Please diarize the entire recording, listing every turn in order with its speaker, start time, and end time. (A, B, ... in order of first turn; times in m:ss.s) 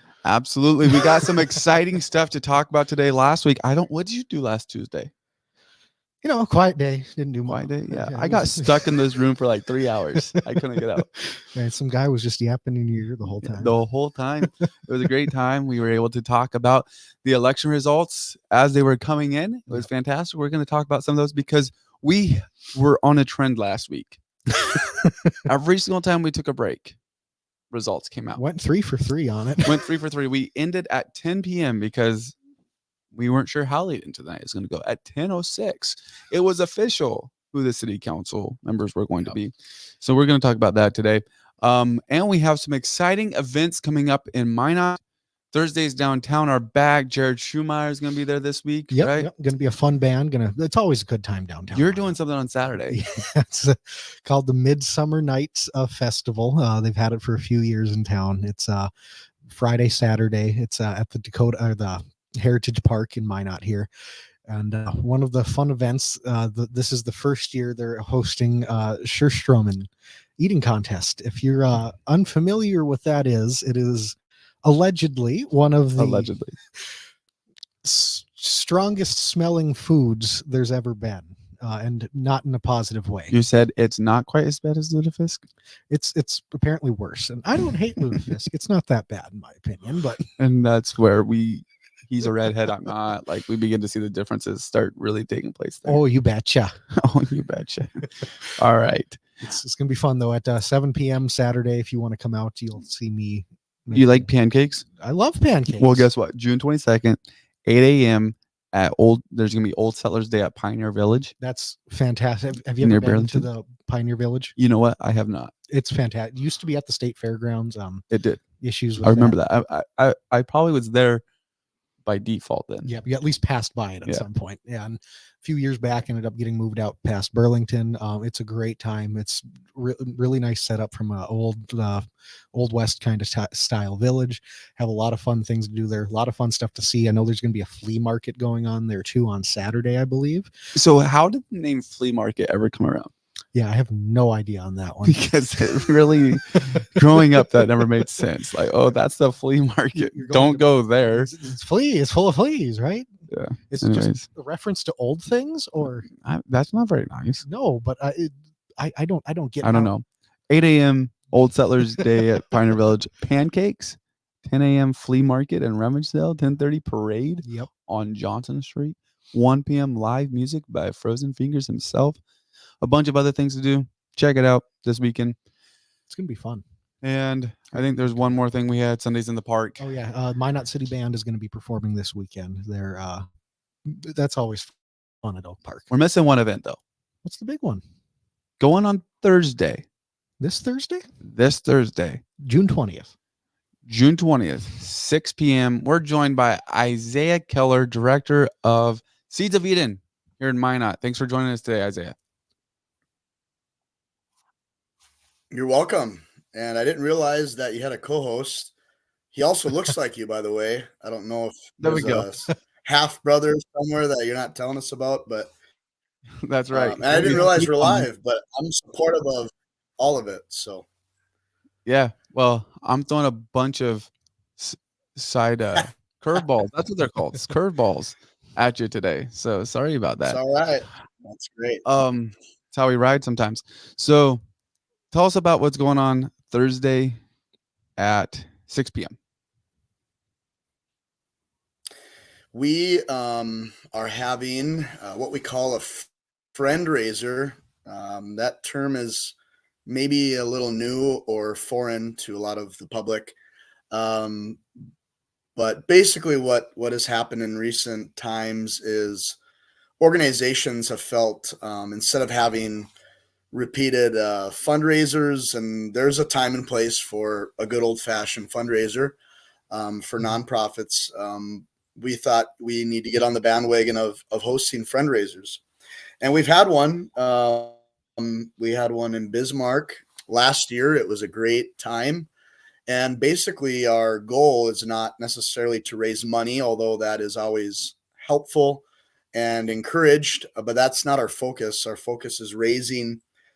0:00.2-0:05.1 A
0:00.9-0:01.4 B
0:06.2-0:09.0 B
0:07.4-0:11.1 A
0:10.2-0:10.4 B
0:11.5-0:13.8 B
0:13.4-0:24.2 A
0:25.4-0:27.0 A
0:27.7-0:28.4 A
0:28.4-0:29.8 B
0:29.6-0:32.3 A
0:33.1-0:45.0 A
0:45.5-0:49.3 A
0:48.9-0:52.2 B
0:51.7-0:53.0 A
0:52.9-0:58.9 B
0:59.4-1:03.9 B
1:04.5-1:16.4 B
1:16.0-1:16.6 A
1:17.8-1:23.3 B
1:23.3-1:25.4 A
1:25.9-1:30.2 B
1:30.4-1:36.0 A
1:35.8-1:36.7 B
1:37.0-1:39.2 A
1:39.4-1:44.3 B
1:43.9-1:44.8 A
1:45.0-1:46.1 B
1:45.8-1:51.3 A
1:51.4-1:54.5 B
1:52.8-1:53.5 A
1:54.6-1:55.5 A
1:55.7-1:58.0 B
1:58.1-1:58.4 A
1:58.6-1:59.4 B
1:59.0-2:01.2 A
2:02.0-2:02.9 A
2:02.8-2:20.5 B
2:20.7-2:23.1 A
2:23.5-2:26.2 B
2:25.0-2:31.3 A
2:27.2-2:27.6 B
2:29.9-2:33.0 B
2:33.3-2:34.2 A
2:33.7-2:36.0 B
2:35.8-2:37.4 A
2:37.4-2:39.9 B
2:39.6-2:52.2 A
2:47.4-2:47.7 B
2:52.8-2:55.4 A
2:56.1-2:56.6 B
2:57.0-2:59.8 A
2:59.8-3:03.3 B
3:03.8-3:05.9 B
3:05.9-3:06.8 A
3:07.2-3:07.8 B
3:08.6-3:09.8 A
3:10.4-3:11.0 B
3:11.2-3:12.2 A
3:12.4-3:13.1 B
3:13.8-3:22.2 A
3:25.5-3:28.7 C
3:29.3-3:35.5 C
3:31.8-3:32.3 A
3:36.4-3:38.1 A
3:36.7-3:40.8 C
3:41.8-3:50.4 A
3:50.2-3:51.8 C
3:51.8-3:54.4 A
3:55.1-3:57.2 A
3:58.0-3:59.1 A
4:02.5-4:09.3 C
4:09.8-4:13.3 C
4:13.9-4:14.6 C
4:15.6-4:19.4 C
4:20.0-4:22.9 C
4:23.5-4:29.2 C
4:29.7-4:35.6 C
4:36.2-4:42.3 C
4:42.9-4:53.2 C